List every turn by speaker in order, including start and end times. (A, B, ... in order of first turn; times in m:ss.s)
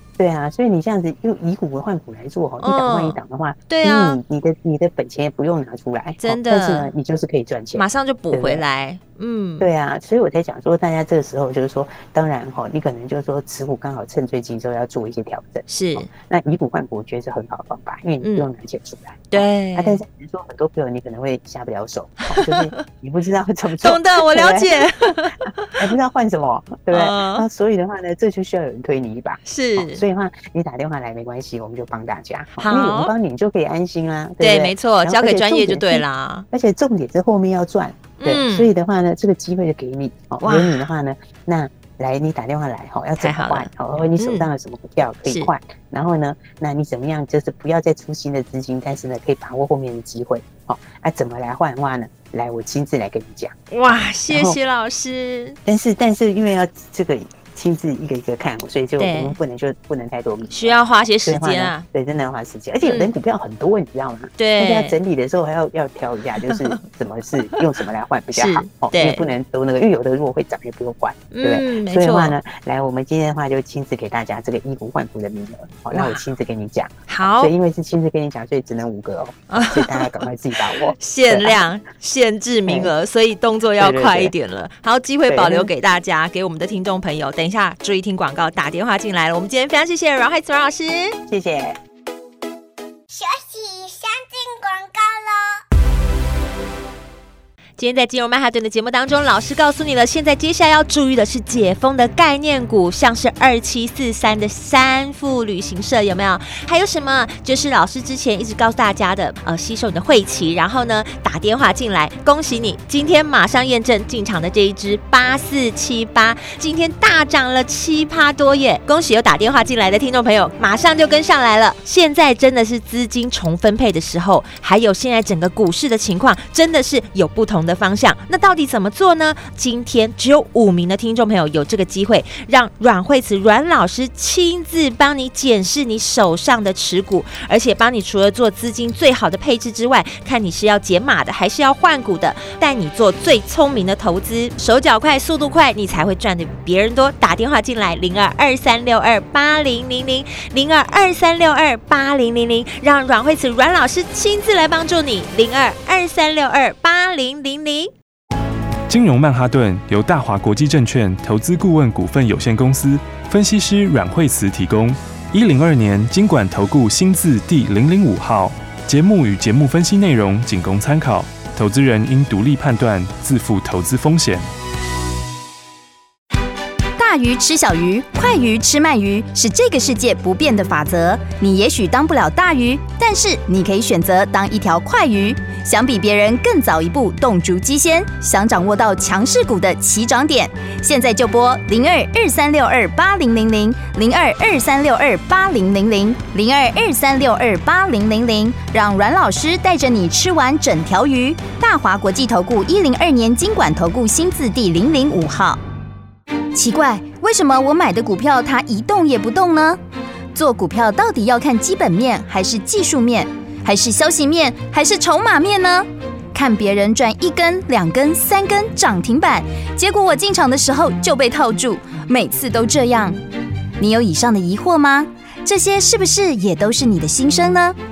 0:00.2-0:08.6 A
0:02.6-0:03.2 B
0:03.7-0:04.2 B
0:06.2-0:06.9 B
0:07.8-0:09.7 B
0:09.6-0:53.6 A
0:15.7-0:16.1 B
0:18.2-0:18.5 B
0:19.3-0:20.0 B
0:22.3-0:22.8 B
0:23.8-0:25.8 B
0:26.9-0:27.4 B
0:29.4-0:30.0 B
0:32.6-0:33.1 B
0:34.4-0:36.4 B
0:38.2-0:38.7 B
0:40.4-0:40.8 B
0:43.2-0:44.5 B
0:53.7-0:55.6 B
0:54.3-0:54.6 A
0:55.6-1:21.6 A
0:59.0-0:59.4 B
1:00.5-1:01.9 B
1:02.8-1:03.1 B
1:04.4-1:05.0 B
1:06.4-1:06.8 B
1:08.4-1:09.3 B
1:11.3-1:12.4 B
1:15.9-1:16.2 B
1:17.1-1:17.5 B
1:19.5-1:20.3 B
1:20.9-1:31.2 B
1:22.6-1:22.9 A
1:23.8-1:24.3 A
1:25.3-1:25.7 A
1:31.3-1:31.8 A
1:33.1-1:35.6 C
1:37.8-2:37.9 B
2:38.9-2:54.4 D
2:57.0-3:25.6 E
3:26.5-3:29.8 E
3:30.3-3:43.2 E
3:43.8-3:47.8 E